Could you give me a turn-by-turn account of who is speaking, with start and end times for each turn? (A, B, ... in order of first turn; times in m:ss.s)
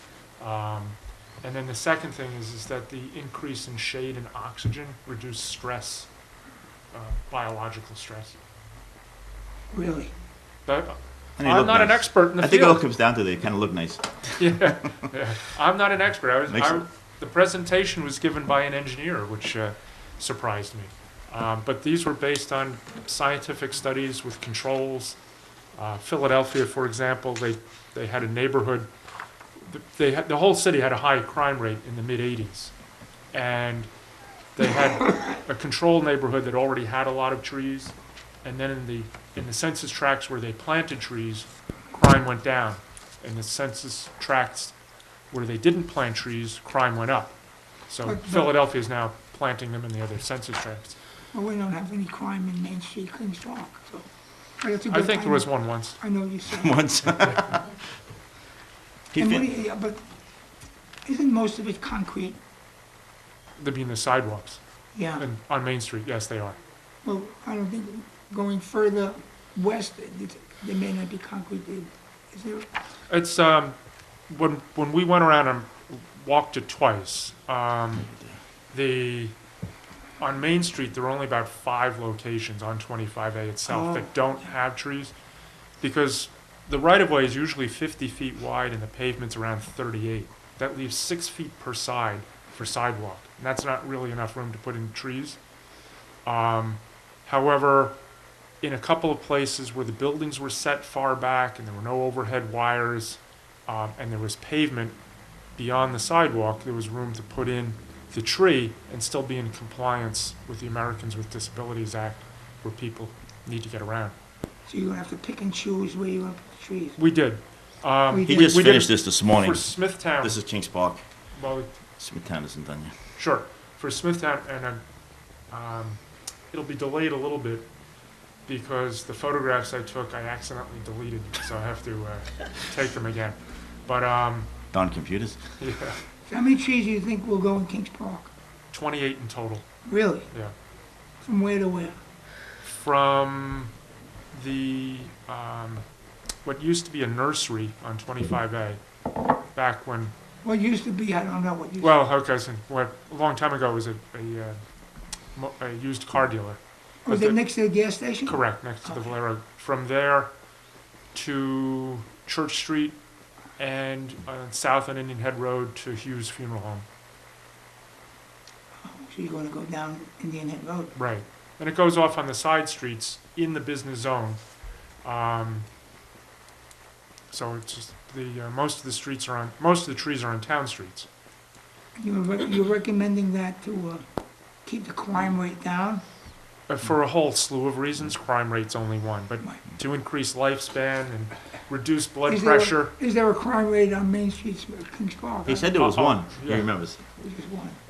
0:00.4-0:06.1 A
0:06.9-0:08.4 A
0:09.7-0:10.1 B
0:10.6-0:12.8 A
0:11.4-0:14.4 C
0:14.4-0:25.2 A
0:16.5-0:16.8 C
0:25.7-0:28.9 A
0:29.6-0:32.7 A
0:33.3-0:33.9 A
0:34.5-0:44.7 A
0:45.3-0:47.4 A
0:47.9-0:51.0 A
0:48.0-0:48.6 B
0:51.3-0:54.1 B
0:54.6-0:56.9 B
0:54.9-0:56.0 A
0:56.5-0:57.7 C
0:59.1-0:59.5 C
0:59.2-1:00.0 B
1:01.0-1:02.4 B
1:03.6-1:04.6 A
1:04.9-1:05.3 B
1:05.2-1:06.6 A
1:07.0-1:12.7 B
1:13.1-1:13.8 A
1:14.3-1:18.1 A
1:18.7-1:19.3 A
1:20.2-1:25.1 A
1:23.7-1:24.1 B
1:25.8-1:35.4 A
1:36.2-1:38.0 A
1:38.6-1:45.0 A
1:45.6-1:54.1 A
1:54.6-1:57.0 B
1:57.0-2:00.4 A
1:58.1-1:58.5 B
1:58.2-2:01.0 C
2:01.3-2:01.7 A
2:02.0-2:02.9 C
2:03.2-2:04.8 A
2:05.5-2:07.7 A
2:08.4-2:14.5 A
2:14.7-2:15.4 C
2:15.6-2:16.0 A
2:16.3-2:18.3 B
2:18.7-2:19.6 A
2:19.8-2:20.3 B
2:21.2-2:22.0 B
2:22.6-2:23.7 A
2:24.3-2:25.8 A
2:26.4-2:28.8 A
2:29.5-2:30.1 A
2:30.4-2:32.0 B
2:31.8-2:34.6 A
2:35.3-2:37.4 A
2:37.0-2:39.0 B
2:38.2-2:40.3 A
2:41.1-2:43.0 A
2:43.6-2:46.8 A
2:48.8-2:50.9 B
2:50.9-2:54.4 A
2:55.0-2:55.7 A
2:57.3-3:01.1 A
3:02.0-3:04.0 B
3:04.6-3:06.0 B
3:06.7-3:12.9 A
3:12.3-3:15.7 B
3:15.4-3:17.0 C
3:15.7-3:16.7 A
3:17.2-3:17.8 B